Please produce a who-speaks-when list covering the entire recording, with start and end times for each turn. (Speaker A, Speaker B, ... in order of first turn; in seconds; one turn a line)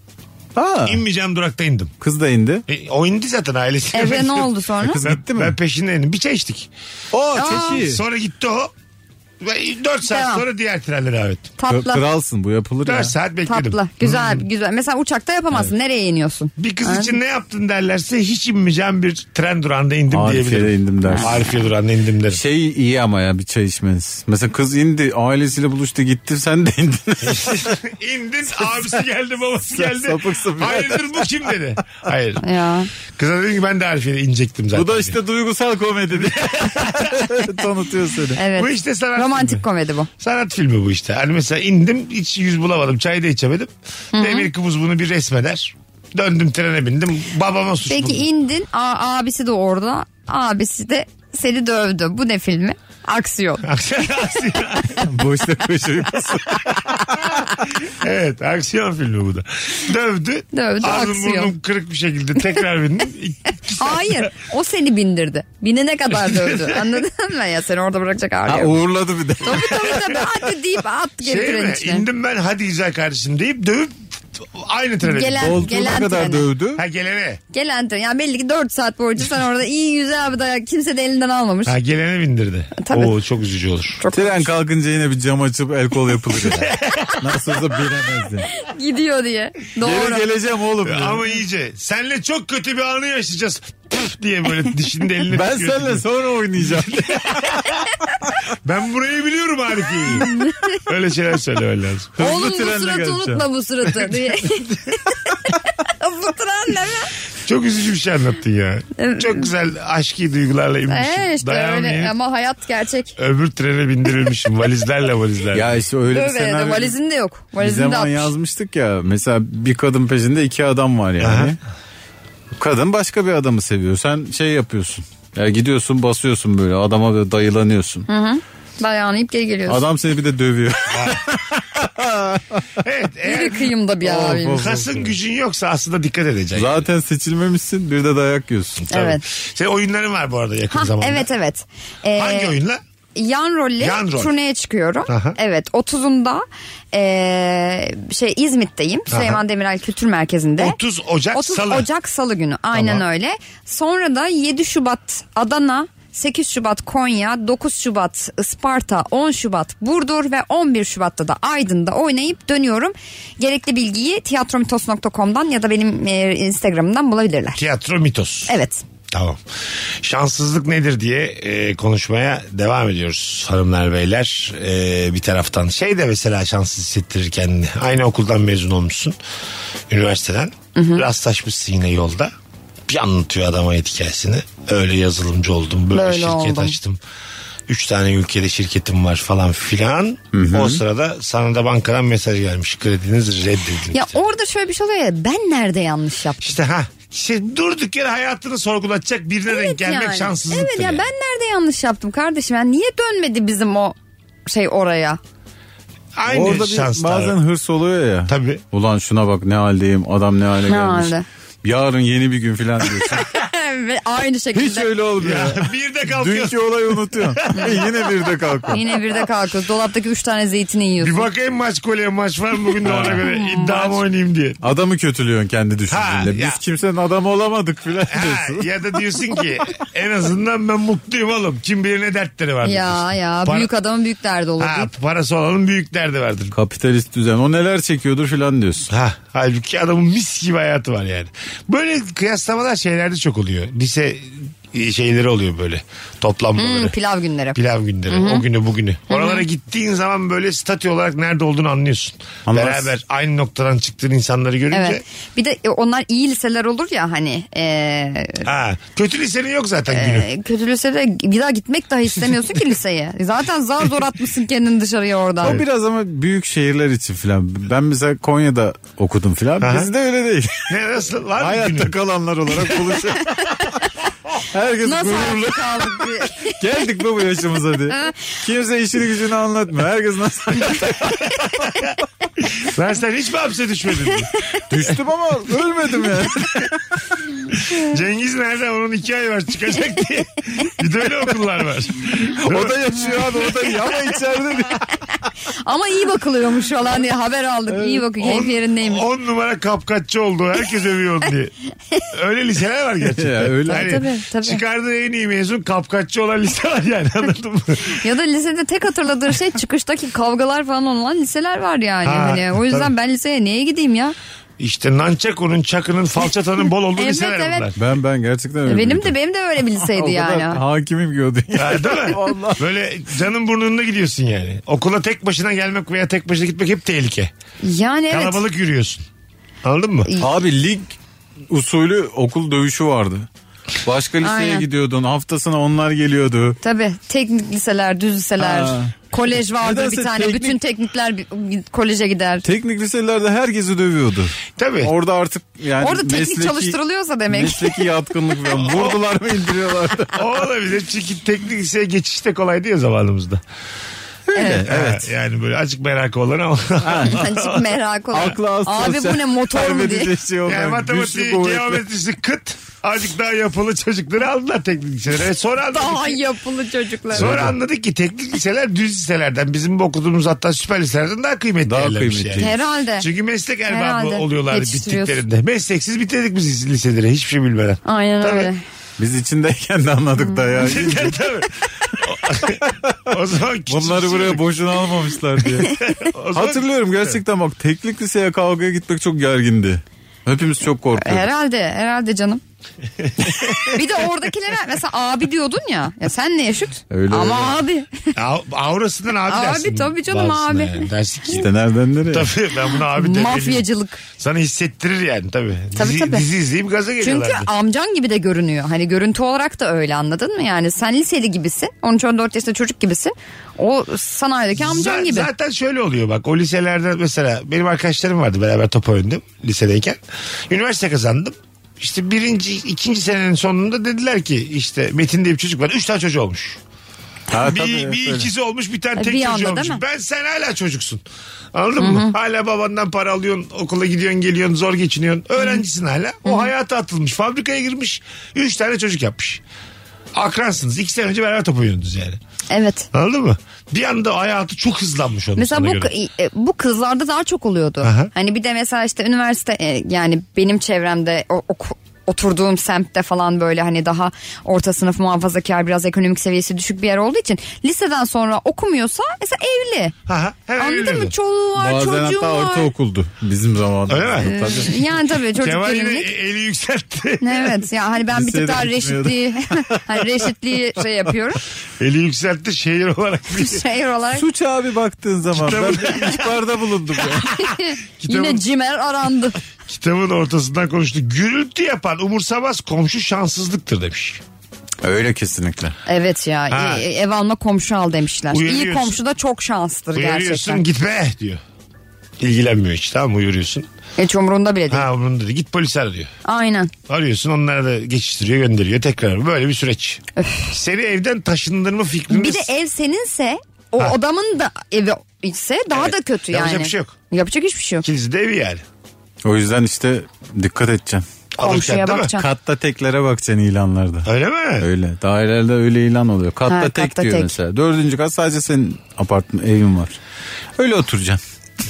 Speaker A: 0.6-1.0
Speaker B: 0.8-1.9
Speaker A: 2.0-2.6
Speaker B: 2.7-6.7
Speaker C: 3.9-5.0
Speaker A: 4.8-5.5
Speaker A: 7.1-8.0
Speaker C: 7.3-7.8
Speaker B: 7.4-8.7
Speaker B: 9.4-11.5
Speaker C: 10.1-10.4
Speaker C: 11.6-12.0
Speaker A: 11.7-13.1
Speaker B: 12.8-14.4
Speaker C: 13.4-17.2
Speaker B: 16.6-22.4
Speaker A: 20.1-21.4
Speaker A: 22.3-27.8
Speaker B: 27.2-32.4
Speaker A: 29.7-31.3
Speaker C: 32.4-32.9
Speaker B: 33.1-35.2
Speaker A: 34.7-38.4
Speaker B: 36.1-37.3
Speaker C: 38.4-40.1
Speaker B: 38.5-39.6
Speaker B: 40.2-48.3
Speaker C: 44.1-44.5
Speaker C: 47.9-53.8
Speaker B: 53.6-55.0
Speaker A: 55.0-57.2
Speaker B: 57.4-64.3
Speaker C: 60.5-61.5
Speaker C: 63.8-68.8
Speaker B: 66.1-67.0
Speaker A: 68.5-70.2
Speaker C: 69.4-72.0
Speaker B: 71.2-75.9
Speaker C: 75.0-76.5
Speaker A: 75.4-76.8
Speaker B: 76.8-77.4
Speaker C: 77.5-81.8
Speaker B: 81.7-84.0
Speaker C: 82.8-83.1
Speaker C: 84.0-84.5
Speaker A: 84.1-88.5
Speaker B: 86.3-87.2
Speaker C: 88.5-90.2
Speaker A: 89.8-91.4
Speaker B: 90.8-96.0
Speaker A: 95.3-97.5
Speaker B: 96.7-97.7
Speaker B: 98.6-102.2
Speaker C: 100.2-100.8
Speaker A: 102.2-103.5
Speaker C: 102.2-107.1
Speaker B: 107.4-112.1
Speaker C: 109.0-109.5
Speaker C: 110.9-113.1
Speaker B: 113.2-115.8
Speaker A: 115.5-116.9
Speaker C: 116.1-118.3
Speaker A: 117.6-121.6
Speaker B: 121.2-121.5
Speaker A: 122.5-128.1
Speaker C: 128.1-129.8
Speaker A: 129.7-132.7
Speaker B: 130.9-131.2
Speaker B: 132.8-133.7
Speaker C: 133.2-134.6
Speaker A: 134.0-135.1
Speaker B: 134.5-136.8
Speaker A: 136.5-138.9
Speaker B: 138.8-141.3
Speaker C: 138.9-139.2
Speaker C: 140.7-142.5
Speaker B: 142.1-142.8
Speaker C: 143.1-150.8
Speaker B: 143.8-144.3
Speaker B: 145.1-145.4
Speaker B: 149.1-149.4
Speaker B: 150.6-151.9
Speaker C: 151.3-167.6
Speaker B: 152.7-153.0
Speaker B: 167.5-168.5
Speaker C: 168.5-168.8
Speaker B: 169.1-169.4
Speaker B: 170.0-179.2
Speaker B: 179.9-182.3
Speaker C: 180.7-181.0
Speaker B: 182.9-187.0
Speaker C: 185.9-186.8
Speaker B: 187.7-194.2
Speaker A: 190.3-190.8
Speaker C: 193.9-196.6
Speaker B: 196.4-201.1
Speaker C: 199.5-205.2
Speaker B: 206.2-207.3
Speaker A: 206.3-213.3
Speaker B: 208.3-208.6
Speaker C: 210.7-211.2
Speaker C: 213.2-214.9
Speaker A: 214.5-218.8
Speaker B: 215.2-218.1
Speaker C: 218.7-221.3
Speaker B: 221.0-224.6
Speaker A: 222.8-223.2
Speaker C: 223.0-224.0
Speaker A: 224.6-228.7
Speaker B: 225.9-226.6
Speaker B: 228.1-233.7
Speaker C: 232.6-234.9
Speaker B: 234.6-236.5
Speaker A: 236.5-238.9
Speaker B: 238.9-246.9
Speaker C: 246.6-248.4
Speaker B: 247.5-255.0
Speaker C: 249.1-249.4
Speaker A: 252.4-252.9
Speaker C: 254.7-258.5
Speaker B: 258.4-260.3
Speaker C: 259.9-265.6
Speaker A: 265.4-270.8
Speaker B: 269.6-269.9
Speaker B: 270.7-271.9
Speaker A: 271.4-273.8
Speaker A: 274.4-281.8
Speaker C: 274.8-276.6
Speaker B: 282.6-284.3
Speaker A: 284.7-287.0
Speaker B: 287.7-293.2
Speaker A: 292.3-295.0
Speaker C: 295.5-299.0
Speaker A: 297.7-298.1
Speaker B: 298.2-301.5
Speaker B: 302.1-308.0
Speaker A: 303.1-304.0
Speaker C: 303.7-304.6
Speaker C: 307.8-314.1
Speaker B: 312.0-312.9
Speaker B: 314.6-317.8
Speaker C: 316.9-317.7
Speaker A: 317.8-319.1
Speaker C: 318.7-320.6
Speaker A: 319.7-322.6
Speaker B: 321.5-327.3
Speaker C: 327.6-328.4
Speaker B: 328.1-329.0
Speaker B: 329.6-330.1
Speaker A: 330.2-330.9
Speaker A: 331.5-333.3
Speaker A: 333.8-336.6
Speaker C: 334.2-334.6
Speaker C: 336.6-342.4
Speaker A: 338.4-338.9
Speaker A: 339.5-340.6
Speaker A: 342.4-346.8
Speaker B: 344.6-344.9
Speaker C: 345.8-347.9
Speaker A: 347.3-350.2
Speaker B: 348.5-349.0
Speaker B: 350.1-353.4
Speaker A: 354.3-355.1
Speaker C: 354.4-354.7
Speaker B: 354.6-357.7
Speaker A: 356.8-357.2
Speaker C: 357.1-360.1
Speaker A: 358.1-361.8
Speaker B: 360.4-366.2
Speaker C: 365.7-367.3
Speaker A: 367.1-367.5
Speaker B: 367.1-378.5
Speaker A: 371.6-372.6
Speaker C: 372.4-373.1
Speaker C: 373.7-375.2
Speaker C: 377.8-378.6
Speaker A: 379.0-381.3
Speaker B: 380.6-384.4
Speaker A: 383.7-391.3
Speaker B: 385.5-387.2
Speaker C: 390.9-392.4
Speaker B: 393.0-393.8
Speaker C: 393.6-398.1
Speaker A: 396.9-397.6
Speaker B: 398.1-401.5
Speaker C: 399.3-400.9
Speaker A: 401.3-402.3
Speaker B: 402.1-403.7
Speaker C: 402.9-404.0
Speaker B: 404.2-407.5
Speaker C: 405.7-406.2
Speaker C: 407.0-415.3
Speaker B: 414.6-426.6
Speaker A: 427.3-428.3
Speaker B: 427.3-439.4
Speaker C: 429.0-429.8
Speaker C: 431.8-432.1
Speaker C: 436.2-436.5
Speaker B: 440.1-442.2
Speaker C: 442.5-442.9
Speaker B: 442.9-445.9
Speaker C: 445.4-459.9
Speaker B: 447.8-448.1
Speaker B: 460.1-461.1
Speaker C: 460.6-462.7
Speaker A: 461.6-464.9
Speaker B: 463.9-464.8
Speaker C: 464.2-466.1
Speaker B: 465.4-467.6
Speaker C: 467.2-471.4
Speaker A: 468.1-470.1
Speaker B: 471.8-473.6
Speaker C: 473.3-474.2
Speaker A: 474.1-477.4
Speaker B: 475.3-478.4
Speaker C: 477.4-479.4
Speaker B: 479.7-484.2
Speaker A: 484.8-485.8
Speaker C: 485.9-490.6
Speaker B: 486.5-486.9
Speaker B: 488.3-489.0
Speaker B: 489.9-491.4
Speaker B: 492.2-493.7
Speaker C: 494.0-494.9
Speaker B: 494.7-496.1
Speaker C: 496.2-496.7
Speaker B: 496.9-502.5
Speaker C: 500.2-500.5
Speaker C: 502.1-507.8
Speaker B: 505.7-506.9
Speaker B: 507.8-508.6
Speaker A: 509.2-511.0
Speaker B: 511.3-512.1
Speaker C: 511.4-512.2
Speaker A: 512.1-514.1
Speaker B: 514.0-514.7
Speaker A: 514.6-520.0
Speaker C: 516.5-517.3
Speaker A: 520.6-521.2